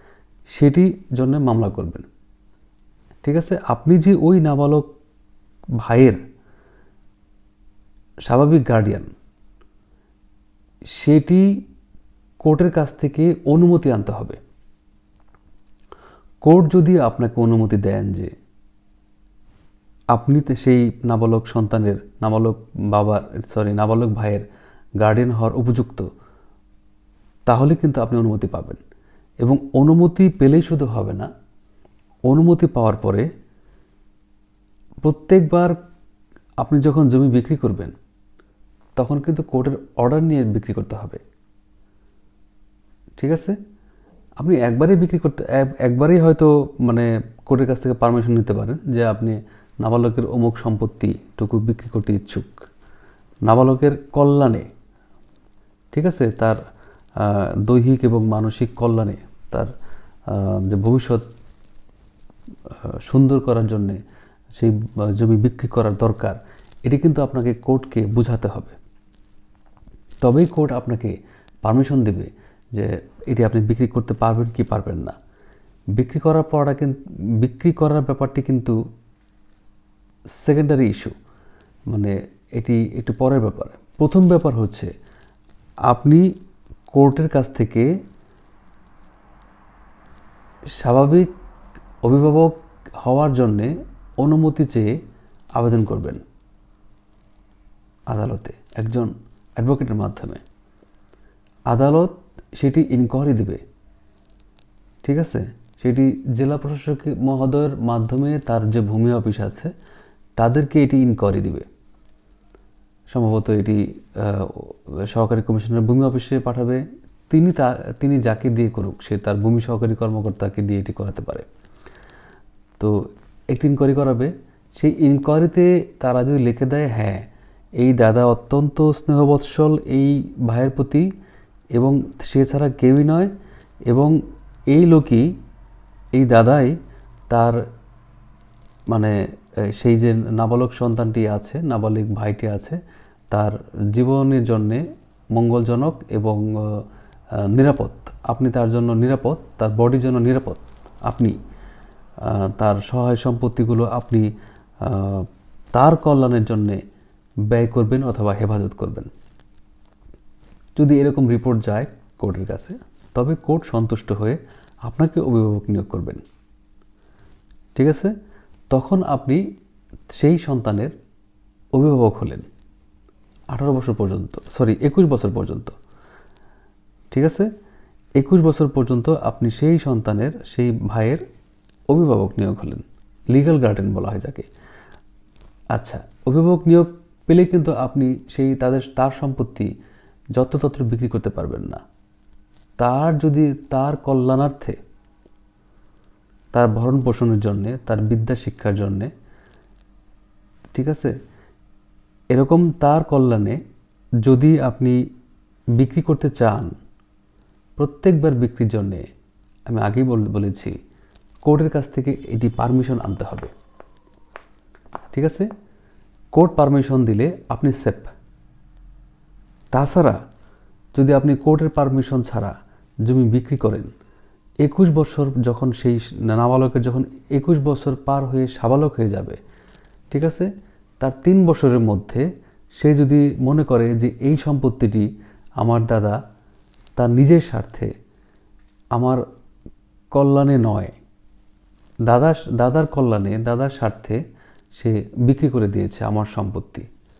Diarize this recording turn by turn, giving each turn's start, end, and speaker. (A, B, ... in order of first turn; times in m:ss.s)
0:00.5-0:02.0 A
0:03.2-0:04.8 A
0:05.8-0:06.2 A
0:08.2-0:09.1 A
0:10.9-0:11.5 A
0:12.4-0:14.4 A
0:16.4-0:18.3 A
0:20.1-0:24.4 A
0:25.0-0:26.1 A
0:27.5-0:28.8 A
0:29.4-0:31.3 A
0:32.3-0:33.3 A
0:35.0-0:35.7 A
0:36.6-0:37.9 A
0:39.0-0:41.2 A
0:43.2-0:43.6 A
0:44.4-0:52.6 A
0:53.4-0:54.7 A
0:55.9-0:56.6 A
0:57.2-0:59.7 A
1:00.3-1:01.2 A
1:02.7-1:04.0 A
1:04.5-1:08.7 A
1:10.2-1:15.1 A
1:16.0-1:18.8 A
1:20.4-1:21.1 A
1:21.9-1:24.9 A
1:25.9-1:26.2 A
1:26.9-1:27.9 A
1:30.8-1:31.3 A
1:32.0-1:34.9 A
1:35.5-1:36.2 A
1:38.1-1:40.4 A
1:41.7-1:43.6 A
1:45.0-1:49.7 A
1:50.4-1:51.6 A
1:53.1-2:01.4 A
2:02.8-2:07.2 A
2:07.8-2:11.1 A
2:11.8-2:13.3 A
2:13.9-2:14.2 A
2:14.7-2:15.2 A
2:16.1-2:16.8 A
2:17.3-2:17.6 A
2:19.7-2:22.8 A
2:23.3-2:24.8 A
2:25.3-2:26.8 A
2:27.5-2:31.3 A
2:32.2-2:34.3 A
2:34.8-2:36.8 A
2:37.5-2:39.1 A
2:40.8-2:46.2 A
2:47.8-2:48.1 A
2:48.7-2:49.4 A
2:50.1-2:50.9 A
2:51.7-2:52.4 A
2:53.5-2:55.7 A
2:57.1-2:57.5 A
2:58.2-3:01.2 A
3:01.9-3:04.5 A
3:05.7-3:09.7 A
3:10.3-3:11.8 A
3:12.8-3:14.8 A
3:16.5-3:19.1 A
3:20.7-3:21.1 A
3:22.3-3:23.6 A
3:24.2-3:25.0 A
3:25.8-3:26.7 A
3:27.8-3:29.0 A
3:29.7-3:30.7 A
3:31.4-3:33.5 A
3:35.1-3:35.5 A
3:36.3-3:38.1 A
3:39.7-3:40.2 A
3:40.9-3:43.9 A
3:44.6-3:49.4 A
3:50.1-3:52.2 A
3:52.8-3:55.1 A
3:55.6-3:56.2 A
3:57.0-3:57.9 A
3:58.9-3:59.2 A
4:00.1-4:00.9 A
4:02.1-4:04.2 A
4:04.7-4:06.9 A